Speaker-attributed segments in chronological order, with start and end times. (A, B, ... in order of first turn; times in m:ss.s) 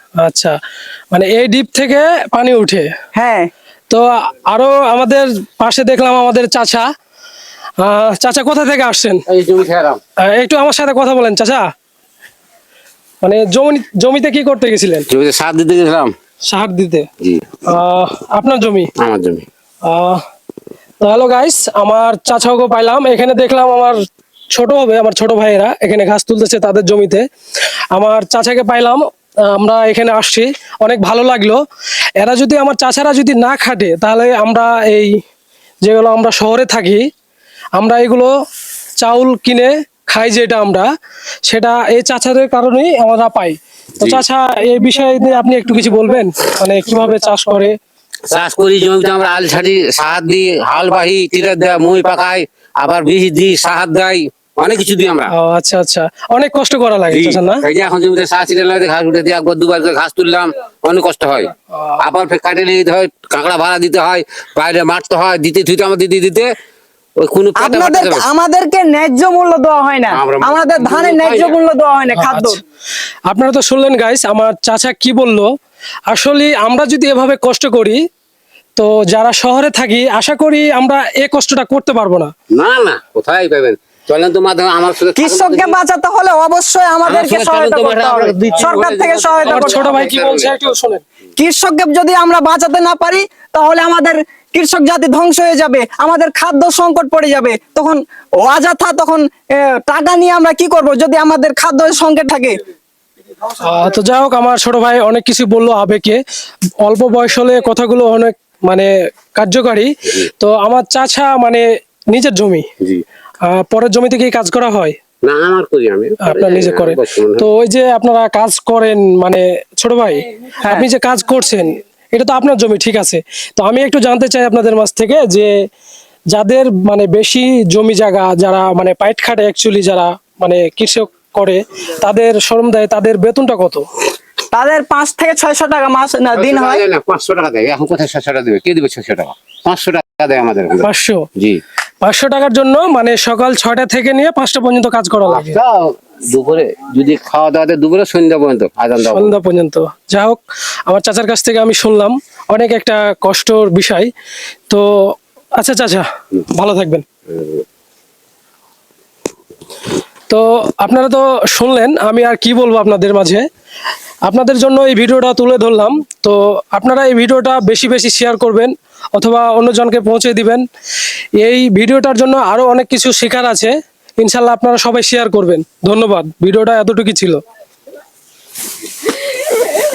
0:00.2-0:00.5 A
0:01.1-0:02.9 A
0:03.1-0:03.5 B
0:03.9-0:06.9 A
0:07.8-0:09.2 A
0:09.3-0:10.0 C
0:10.2-0:11.6 A
0:13.2-0:15.0 A
0:15.1-0:16.1 C
0:16.5-0:17.1 A
0:17.6-0:18.9 A
0:19.0-0:19.4 C
0:19.8-0:20.2 A
0:21.0-0:24.0 A
0:24.5-0:27.2 A
0:27.9-0:31.6 A
0:32.2-0:35.1 A
0:35.8-0:37.0 A
0:37.8-0:38.3 A
0:39.0-0:40.9 A
0:41.4-0:47.7 A
0:48.3-0:55.3 C
0:55.3-0:57.6 A
0:57.1-1:06.5 C
1:07.2-1:08.2 C
1:07.6-1:12.6 B
1:10.1-1:11.6 C
1:12.2-1:12.6 A
1:13.3-1:15.5 A
1:16.1-1:18.0 A
1:18.8-1:22.3 A
1:22.5-1:25.7 C
1:25.1-1:29.9 B
1:27.0-1:30.5 C
1:29.4-1:31.0 A
1:31.4-1:42.6 B
1:43.6-1:46.2 A
1:46.8-1:52.6 A
1:53.4-1:54.9 A
1:55.2-1:57.5 C
1:56.2-2:05.5 A
2:06.3-2:13.8 A
2:14.5-2:16.8 B
2:16.3-2:21.6 C
2:20.8-2:21.2 A
2:22.0-2:25.6 A
2:25.3-2:29.3 C
2:29.0-2:34.1 A
2:34.7-2:37.0 A
2:40.3-2:43.4 A
2:44.2-2:50.6 A
2:51.4-2:57.4 A